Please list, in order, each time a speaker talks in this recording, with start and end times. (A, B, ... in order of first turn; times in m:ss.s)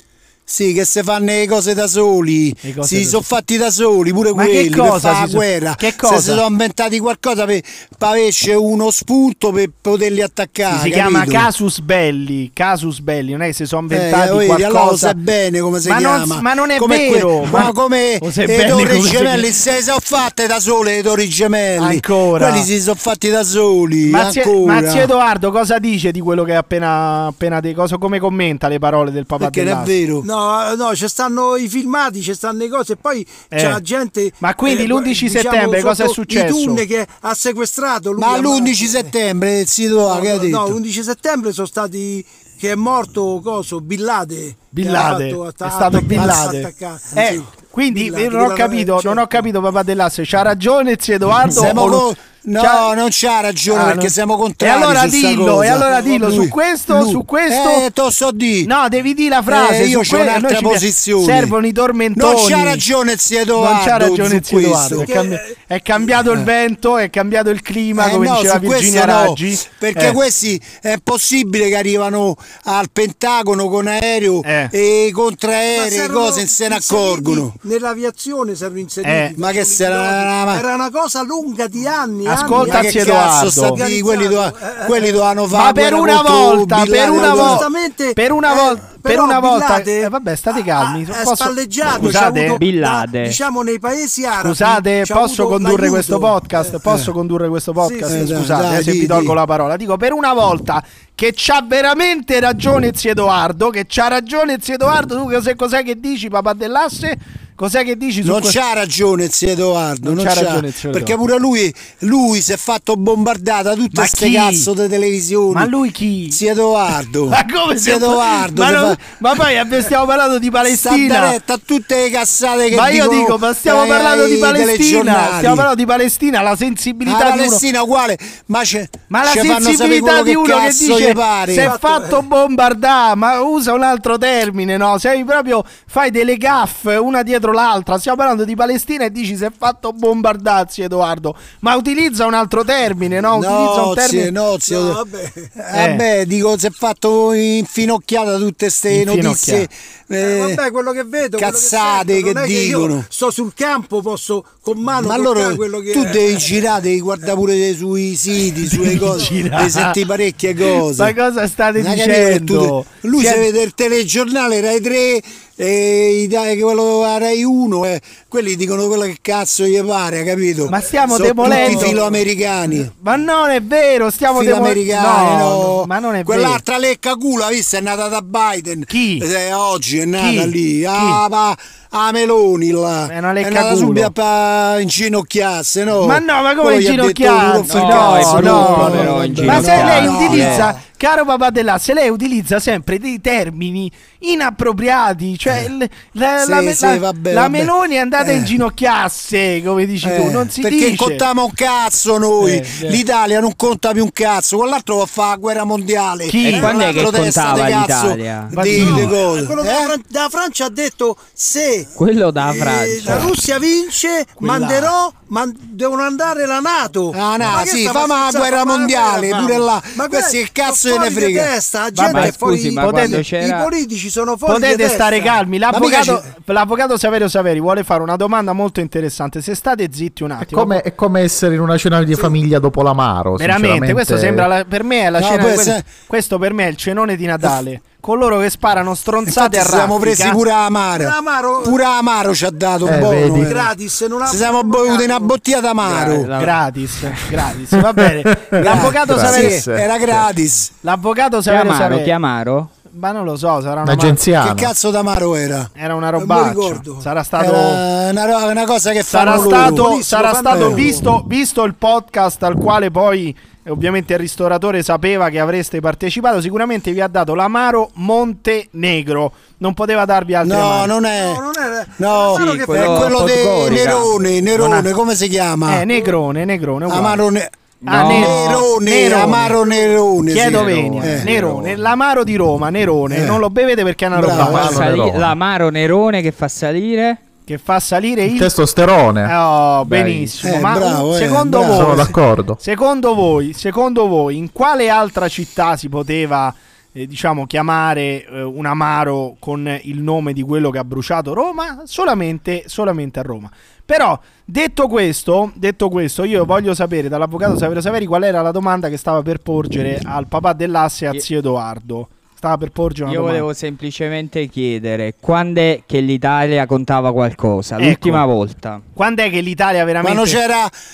0:00.5-0:11.5 A
0:02.6-0:03.2 B
0:04.3-0:06.4 B
0:10.7-0:15.1 B
0:13.9-0:25.1 A
0:15.8-0:19.5 B
0:21.8-0:22.7 B
0:24.0-0:29.9 B
0:29.4-0:30.2 A
0:30.2-0:39.1 C
0:33.5-0:33.8 B
0:34.4-0:36.8 B
0:38.2-0:40.7 A
0:40.0-0:49.3 C
0:44.7-0:52.9 B
0:51.5-0:58.7 A
0:53.7-0:57.8 B
0:58.6-1:02.8 B
0:59.5-1:01.5 A
1:02.2-1:05.1 A
1:03.6-1:10.2 B
1:04.9-1:05.6 C
1:08.0-1:17.5 A
1:14.4-1:14.7 B
1:15.7-1:25.3 C
1:19.0-1:19.4 B
1:19.4-1:20.6 A
1:22.2-1:23.9 B
1:22.4-1:27.6 A
1:25.5-1:32.6 B
1:27.1-1:36.7 C
1:32.6-1:33.4 D
1:34.4-1:48.6 B
1:37.8-1:38.4 C
1:38.1-1:39.3 A
1:48.2-1:55.7 A
1:50.0-1:51.1 B
1:53.9-1:54.7 B
1:55.5-1:56.4 B
1:56.3-1:59.1 A
1:57.3-2:01.3 B
2:00.6-2:05.7 A
2:02.7-2:07.6 B
2:07.0-2:11.7 A
2:09.1-2:24.3 B
2:11.6-2:12.2 C
2:23.3-2:25.0 A
2:24.7-2:25.6 C
2:25.7-2:30.5 A
2:25.7-2:26.0 B
2:28.9-2:29.7 B
2:30.2-2:36.5 C
2:31.4-2:33.0 A
2:35.0-2:41.1 A
2:38.7-2:40.0 B
2:40.9-2:43.4 B
2:41.8-2:52.9 A
2:50.7-2:52.1 B
2:51.5-2:51.8 C
2:52.8-2:56.6 B
2:54.3-3:10.8 A
2:58.9-2:59.2 B
3:00.2-3:01.2 B
3:03.1-3:04.1 B
3:06.0-3:21.2 B
3:07.7-3:10.7 D
3:16.4-3:18.5 A
3:20.0-3:29.9 A
3:22.4-3:23.0 B
3:26.3-3:26.9 B
3:26.4-3:28.8 D
3:26.5-3:27.0 C
3:28.5-3:29.1 B
3:28.6-3:45.4 C
3:32.0-3:33.3 D
3:34.4-3:34.9 B
3:37.1-3:41.5 A
3:41.9-3:43.2 B
3:42.0-3:43.7 D
3:44.5-3:50.8 B
3:45.7-3:46.1 A
3:50.4-3:54.5 E
3:53.4-4:00.4 B
3:55.2-3:55.9 A
3:59.3-4:01.1 A
4:00.9-4:01.8 C
4:01.6-4:03.6 A
4:02.8-4:03.5 E
4:03.4-4:05.4 C
4:04.3-4:06.3 A
4:05.8-4:06.6 D
4:06.3-4:09.6 B
4:08.4-4:10.2 E
4:08.6-4:10.7 A
4:10.8-4:12.1 B
4:11.5-4:12.7 D
4:12.9-4:14.3 B
4:13.8-4:14.7 E
4:14.3-4:15.7 A
4:15.8-4:17.8 B
4:16.2-4:17.0 C
4:17.4-4:19.8 A
4:19.1-4:30.9 B
4:19.4-4:21.1 C
4:20.5-4:20.8 A
4:30.4-4:31.4 A
4:31.0-4:33.2 C
4:32.0-4:35.8 A
4:32.3-4:34.1 D
4:34.6-4:34.9 B
4:35.7-4:37.2 B
4:36.9-4:37.5 A
4:37.8-4:39.6 B
4:37.9-4:38.4 D
4:38.0-4:41.4 A
4:40.3-4:44.8 B
4:40.5-4:41.7 D
4:43.1-4:43.4 A
4:44.1-4:44.7 A
4:44.3-4:45.3 E
4:44.4-4:47.2 D
4:47.5-4:48.5 B
4:48.3-4:49.4 E
4:49.2-5:13.4 B
4:49.8-4:50.4 D
4:50.4-4:52.1 A
4:51.7-4:52.6 E
5:13.0-5:18.8 D
5:17.8-5:18.2 B
5:19.0-5:20.4 B
5:20.0-5:20.7 A